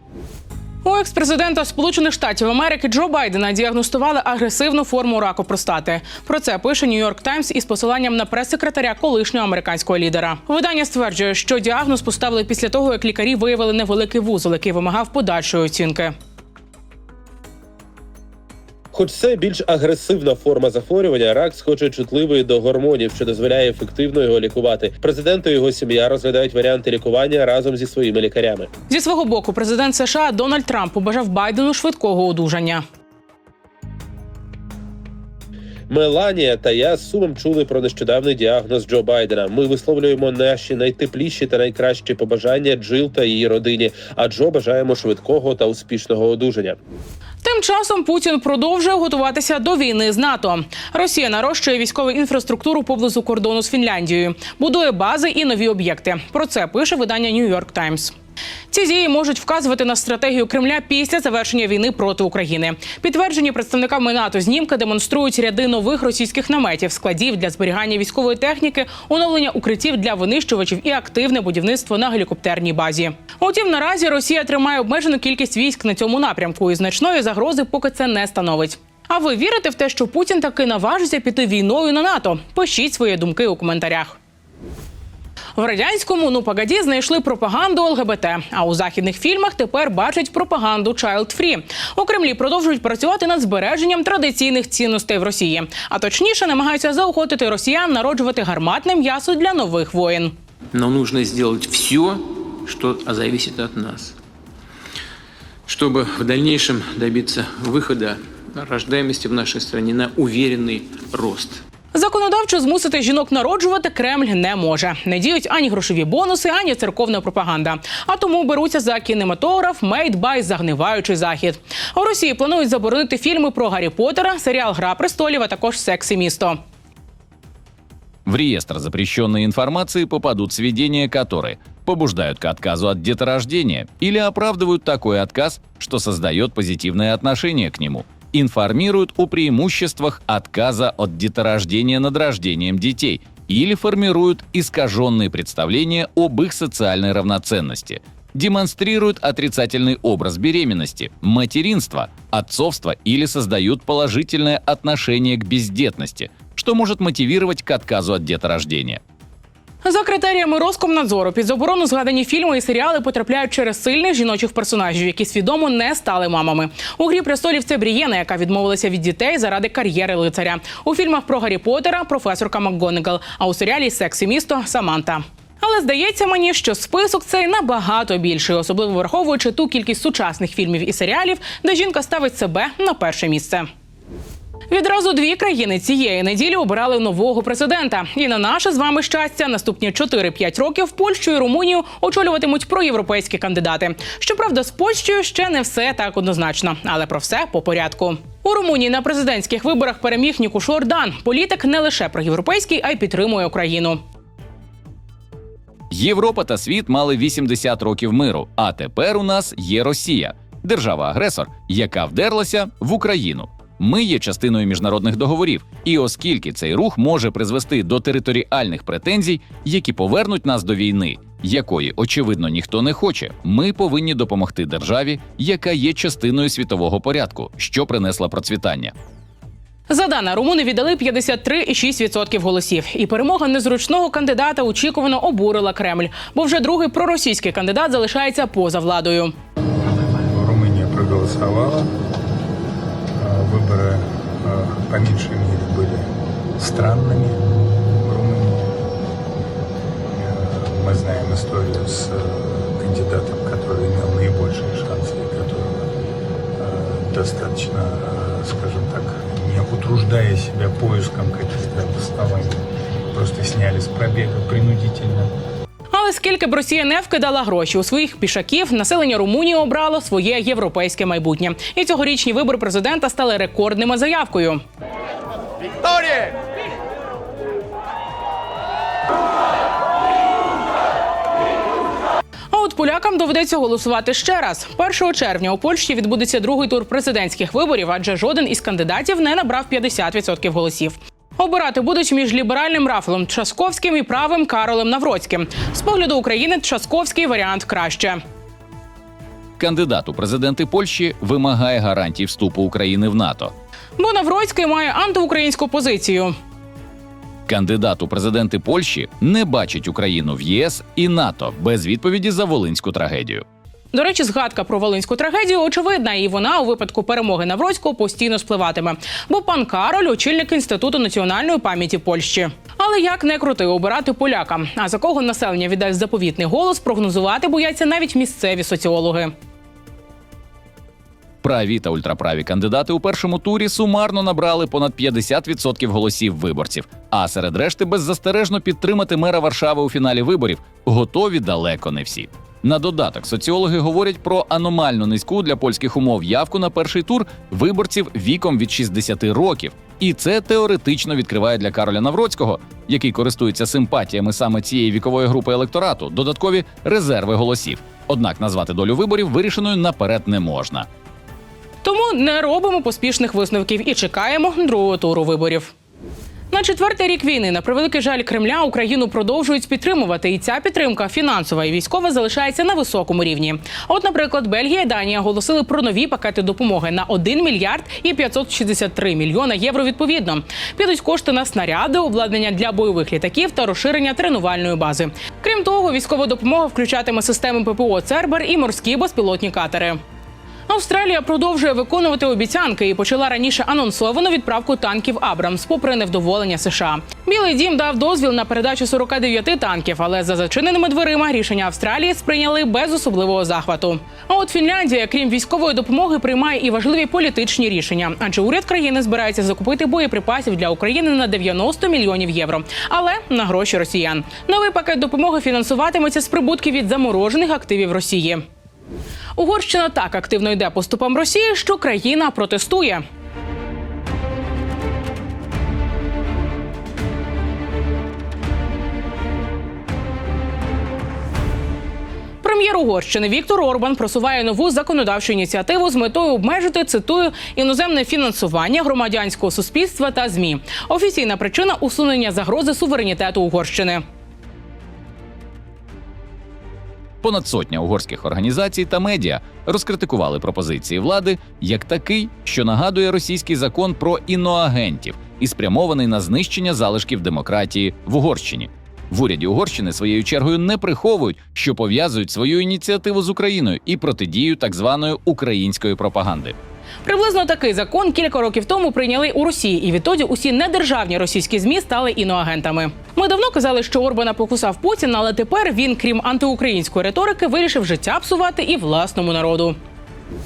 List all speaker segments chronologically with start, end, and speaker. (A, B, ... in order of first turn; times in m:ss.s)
0:00.8-0:16.1 A
0:18.9-0:28.7 B
0:28.9-0:32.8 A
0:35.9-0:46.8 B
0:47.4-0:58.1 A
0:58.7-1:24.2 A
1:25.6-1:40.3 A
1:40.7-1:44.1 C
1:45.7-1:51.6 C
1:51.9-2:06.6 A
2:08.2-2:39.0 D
2:39.8-3:03.7 A
3:04.7-3:24.0 A
3:25.9-3:48.9 D
3:49.9-3:59.3 A
4:00.2-4:01.9 E
4:03.2-4:07.4 E
4:08.0-4:08.8 E
4:10.1-4:15.9 E
4:16.6-4:25.3 E
4:25.9-4:34.6 A
4:42.5-4:58.2 A
4:59.6-5:03.5 D
5:04.0-5:06.3 A
5:07.5-5:13.4 D
5:13.9-5:29.3 A
5:31.4-6:00.9 D
6:01.8-6:05.7 A
6:06.5-6:30.0 A
6:30.7-6:58.4 A
6:59.4-7:03.0 A
7:12.4-7:24.0 A
7:27.2-7:46.6 D
7:47.0-7:59.8 A